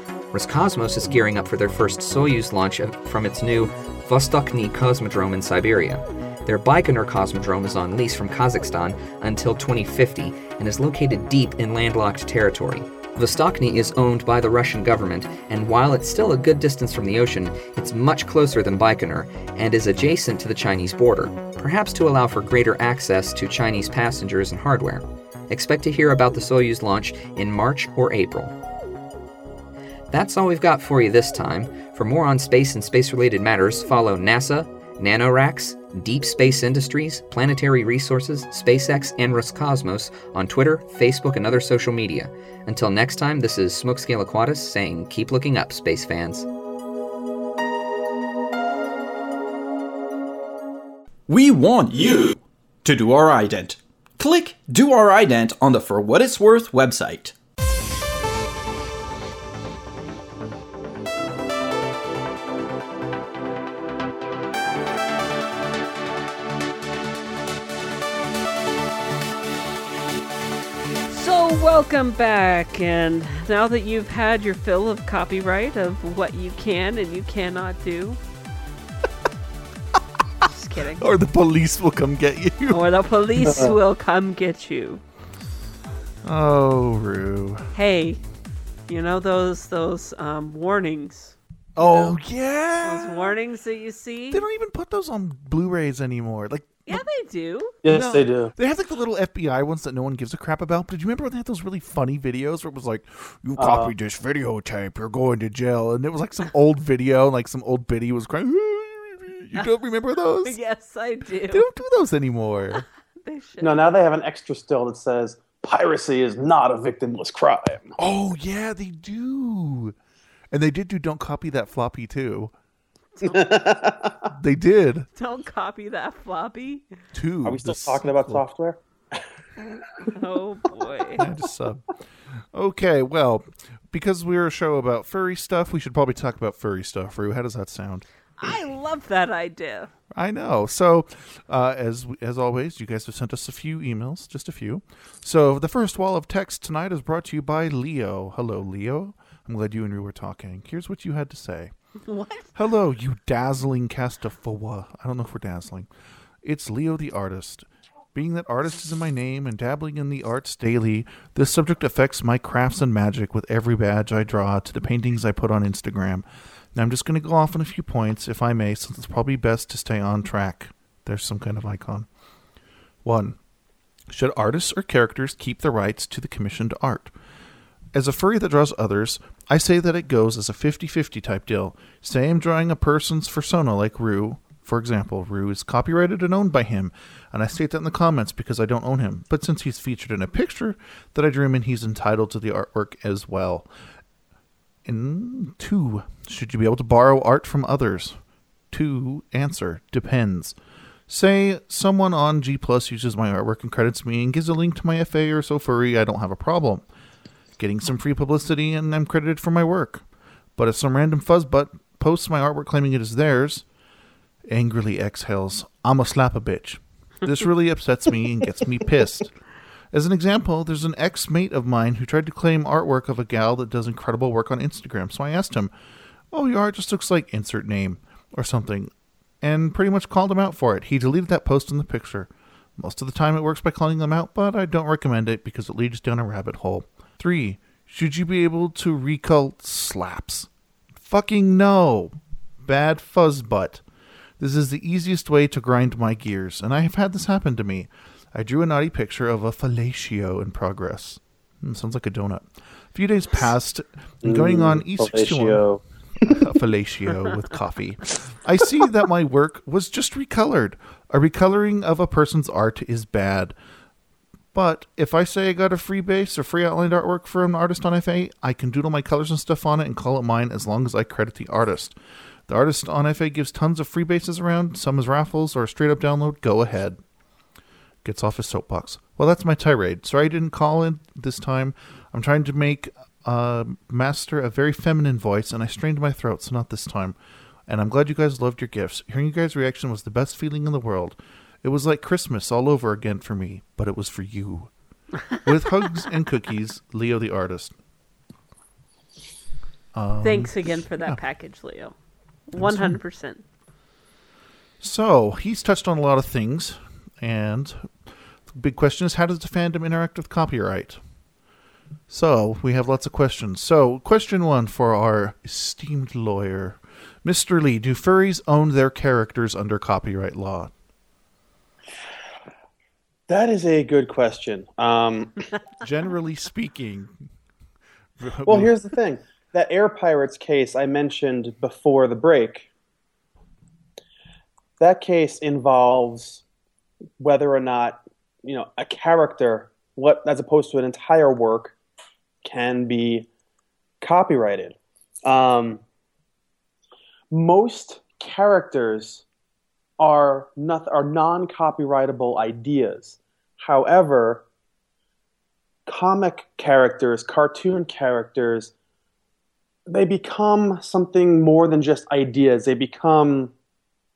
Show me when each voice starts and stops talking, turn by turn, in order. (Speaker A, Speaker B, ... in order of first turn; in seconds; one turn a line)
Speaker A: 0.3-28.6
Speaker A: 30.1-46.5
Speaker B: 51.3-57.4
Speaker C: 71.1-78.2
Speaker C: 80.5-81.1
Speaker D: 81.0-82.8
Speaker C: 82.7-85.0
Speaker E: 83.5-83.8
Speaker D: 86.2-87.7
Speaker C: 87.7-88.2
Speaker C: 88.9-92.2
Speaker D: 91.8-93.4
Speaker C: 92.8-94.4
Speaker D: 94.3-97.0
Speaker C: 96.9-97.8
Speaker E: 97.8-98.5
Speaker D: 97.9-110.6
Speaker E: 103.6-103.9
Speaker C: 110.4-111.7
Speaker D: 111.5-112.8
Speaker C: 113.2-113.9
Speaker E: 113.6-117.9
Speaker D: 118.0-120.0
Speaker D: 120.5-122.5
Speaker E: 123.2-124.3
Speaker D: 124.3-125.1
Speaker C: 125.2-126.8
Speaker D: 127.1-128.4
Speaker E: 127.5-128.8
Speaker C: 129.6-131.2
Speaker D: 131.2-138.1
Speaker C: 138.4-139.9
Speaker D: 140.1-151.7
Speaker C: 152.0-152.5
Speaker D: 152.6-155.9
Speaker D: 156.4-172.1
Speaker D: 173.0-173.4
Speaker D: 174.1-177.1
Speaker D: 177.9-193.7
Speaker D: 194.8-198.2
Speaker D: 198.7-200.6
Speaker D: 201.1-206.8
Speaker D: 207.6-210.0
Speaker D: 210.6-213.7
Speaker D: 214.5-219.3
Speaker D: 219.9-225.7
Speaker D: 226.3-243.8
Speaker D: 244.4-255.7
Speaker E: 254.2-256.4
Speaker D: 256.3-263.5
Speaker D: 264.5-272.0
Speaker D: 272.5-277.0
Speaker D: 278.0-287.2
Speaker D: 287.7-294.7
Speaker D: 295.4-297.7
Speaker D: 299.9-301.2
Speaker C: 300.2-301.9
Speaker C: 302.5-303.4
Speaker D: 302.6-303.0
Speaker D: 304.8-307.9
Speaker D: 308.5-311.0
Speaker D: 312.1-320.7
Speaker E: 323.3-325.4
Speaker D: 325.8-327.1
Speaker D: 328.2-328.7
Speaker E: 328.4-332.7
Speaker E: 334.8-336.4
Speaker E: 337.2-341.7
Speaker E: 342.4-343.3
Speaker E: 344.0-345.8
Speaker E: 347.3-349.2
Speaker E: 350.0-354.4
Speaker E: 355.9-358.7
Speaker E: 359.9-363.5